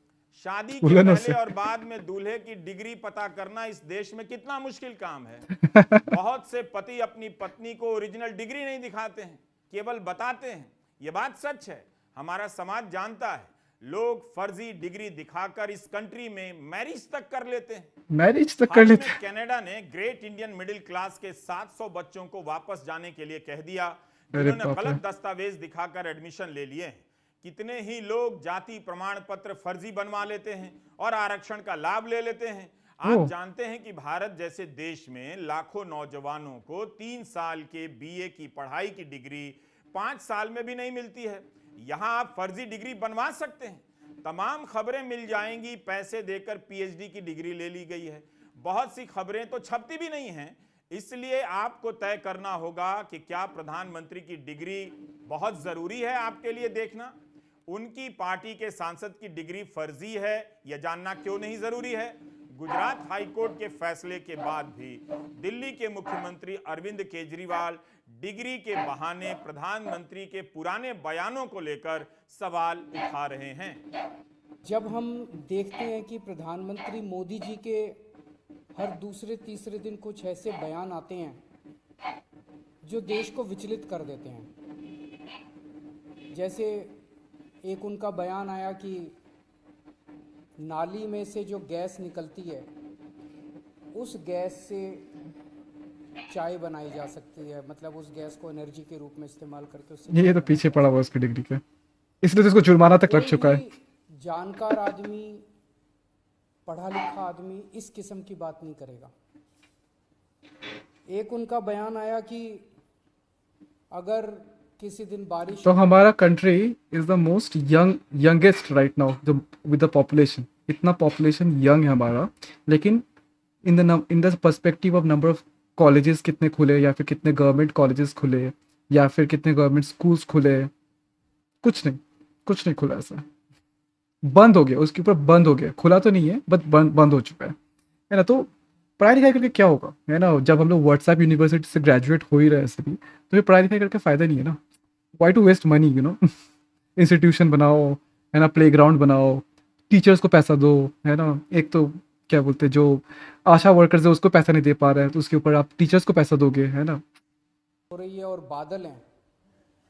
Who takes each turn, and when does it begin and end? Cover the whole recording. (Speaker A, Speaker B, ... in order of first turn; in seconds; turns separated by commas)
Speaker A: 0.3-5.5, Speaker B: 0.8-1.4, Speaker B: 5.6-6.1, Speaker A: 6.1-17.9, Speaker B: 18.1-19.2, Speaker A: 18.7-57.1, Speaker B: 24.3-25.0, Speaker B: 33.0-33.3, Speaker A: 57.7-73.8, Speaker C: 74.6-78.0, Speaker C: 78.7-81.4, Speaker C: 82.8-84.5, Speaker C: 86.3-87.0, Speaker C: 87.6-89.1, Speaker C: 90.6-92.7, Speaker C: 93.9-95.1, Speaker C: 96.3-101.0, Speaker B: 100.1-101.6, Speaker B: 102.2-103.6, Speaker C: 103.0-105.4, Speaker C: 106.7-109.1, Speaker C: 111.1-112.7, Speaker C: 113.9-115.9, Speaker B: 115.6-123.0, Speaker B: 123.6-130.7, Speaker B: 131.6-133.2, Speaker B: 134.2-137.6, Speaker B: 138.1-144.6, Speaker B: 145.2-146.3, Speaker B: 146.9-157.0, Speaker C: 157.9-159.0